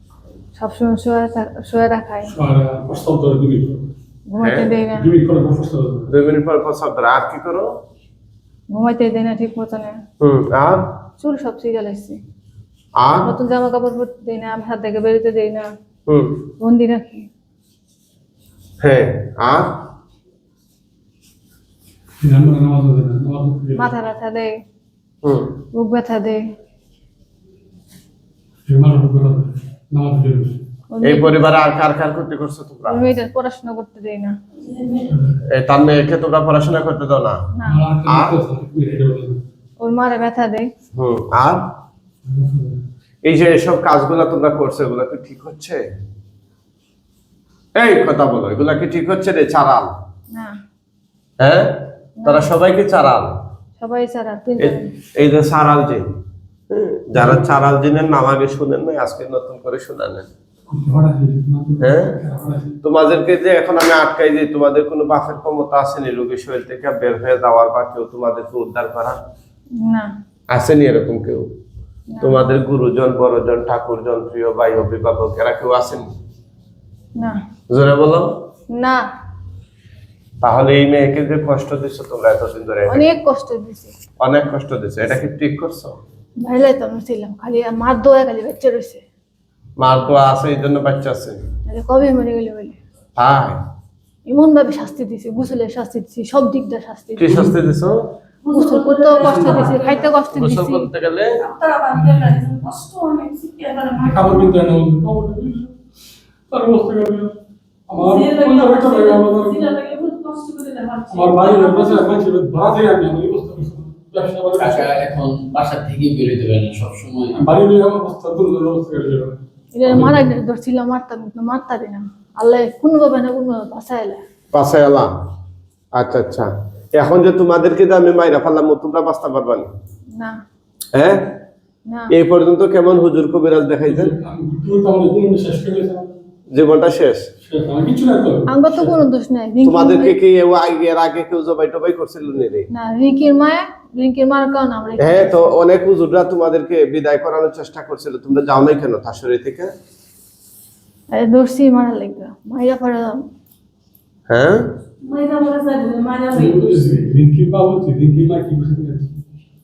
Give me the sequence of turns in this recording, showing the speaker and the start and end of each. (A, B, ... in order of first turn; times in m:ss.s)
0:00.6-0:02.3 A
0:02.3-0:03.9 B
0:04.3-0:05.1 A
0:04.4-0:04.7 C
0:04.9-0:06.1 B
0:06.1-0:07.7 C
0:08.7-0:10.0 A
0:10.2-0:11.0 C
0:11.2-0:12.2 A
0:13.0-0:13.3 C
0:13.2-0:15.7 A
0:16.1-0:16.4 C
0:16.6-0:17.3 A
0:18.8-0:19.9 C
0:22.2-0:23.9 B
0:23.8-0:24.5 A
0:25.2-0:25.6 C
0:25.7-0:26.4 A
0:28.7-0:30.6 B
0:30.9-0:31.4 A
0:31.0-0:33.1 C
0:32.9-0:34.4 A
0:34.6-0:35.1 D
0:35.1-0:35.4 B
0:35.5-0:37.4 C
0:37.6-0:37.8 A
0:37.6-0:39.4 B
0:38.1-0:38.4 C
0:39.8-0:40.7 A
0:40.9-0:41.7 C
0:42.3-0:42.8 B
0:43.2-0:45.8 C
0:47.8-0:49.9 C
0:51.4-0:51.7 C
0:52.2-0:52.5 A
0:52.2-0:53.3 C
0:53.8-0:54.9 A
0:54.6-0:56.1 C
0:56.7-1:00.3 C
0:57.2-0:57.4 B
1:00.7-1:02.8 B
1:01.8-1:02.2 C
1:02.8-1:09.2 C
1:09.8-1:10.1 A
1:10.5-1:11.5 C
1:12.1-1:12.4 A
1:12.2-1:16.1 C
1:17.7-1:18.4 C
1:18.7-1:19.0 A
1:20.4-1:23.1 C
1:22.9-1:24.0 A
1:24.2-1:26.0 C
1:26.4-1:29.0 A
1:29.8-1:31.4 C
1:31.7-1:32.8 A
1:33.2-1:33.6 C
1:34.3-1:37.5 A
1:37.2-1:38.1 C
1:38.4-1:40.1 D
1:38.5-1:40.9 A
1:39.3-1:39.6 B
1:40.3-1:41.4 C
1:41.2-1:44.6 D
1:41.9-1:42.4 B
1:44.0-1:45.8 B
1:46.5-1:47.4 B
1:47.9-1:49.7 B
1:48.0-1:52.0 D
1:51.1-1:55.0 B
1:54.6-1:57.4 E
1:57.3-2:00.3 B
1:59.8-2:04.2 A
2:04.5-2:05.1 C
2:06.0-2:09.7 C
2:10.9-2:11.2 C
2:12.1-2:14.1 C
2:13.9-2:16.2 B
2:16.5-2:17.2 C
2:17.4-2:18.9 B
2:18.5-2:20.2 A
2:19.6-2:22.7 C
2:22.7-2:25.5 A
2:25.0-2:29.7 C
2:31.2-2:33.2 A
2:34.3-2:34.6 C
2:35.0-2:36.9 D
2:36.3-2:39.2 B